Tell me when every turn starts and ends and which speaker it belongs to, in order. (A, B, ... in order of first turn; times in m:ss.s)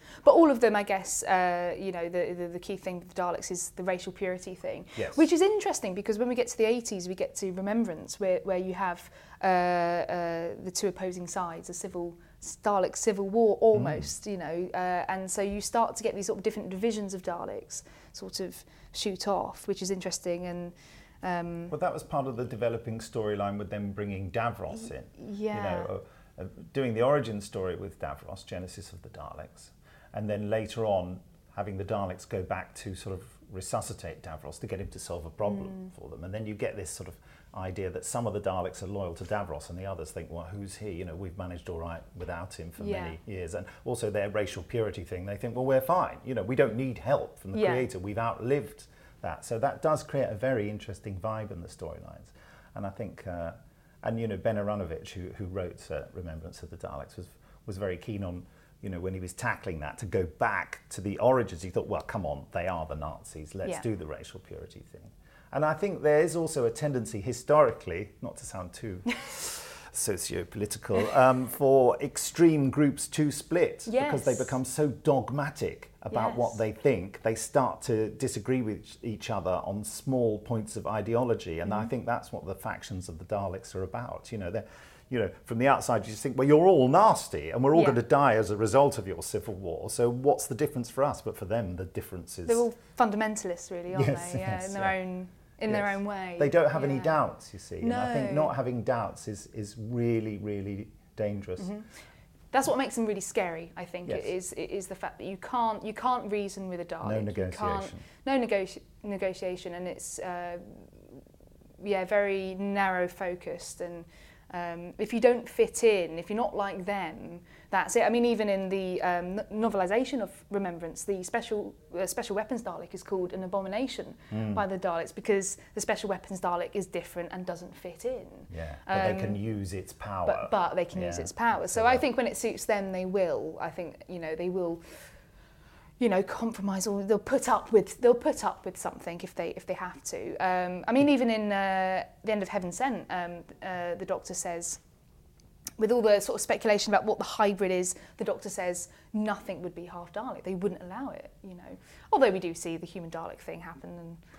0:00.2-0:21.7 A
0:05.0-0:05.2 B
0:13.7-0:14.1 B
0:21.7-1:32.7 B
0:25.2-0:25.9 A
0:35.5-0:35.9 A
0:42.8-0:43.2 A
0:47.5-0:47.9 A
1:13.9-1:14.6 A
1:16.1-1:16.6 A
1:27.7-1:28.0 A
1:32.5-1:37.2 A
1:33.9-1:35.0 B
1:35.7-1:41.8 B
1:37.8-1:38.6 A
1:41.6-1:41.9 A
1:42.5-1:50.9 A
1:47.0-1:48.0 B
1:51.8-2:09.4 A
2:04.3-2:04.6 B
2:08.5-2:12.0 B
2:10.3-2:14.8 A
2:16.0-2:24.8 A
2:25.8-2:34.2 A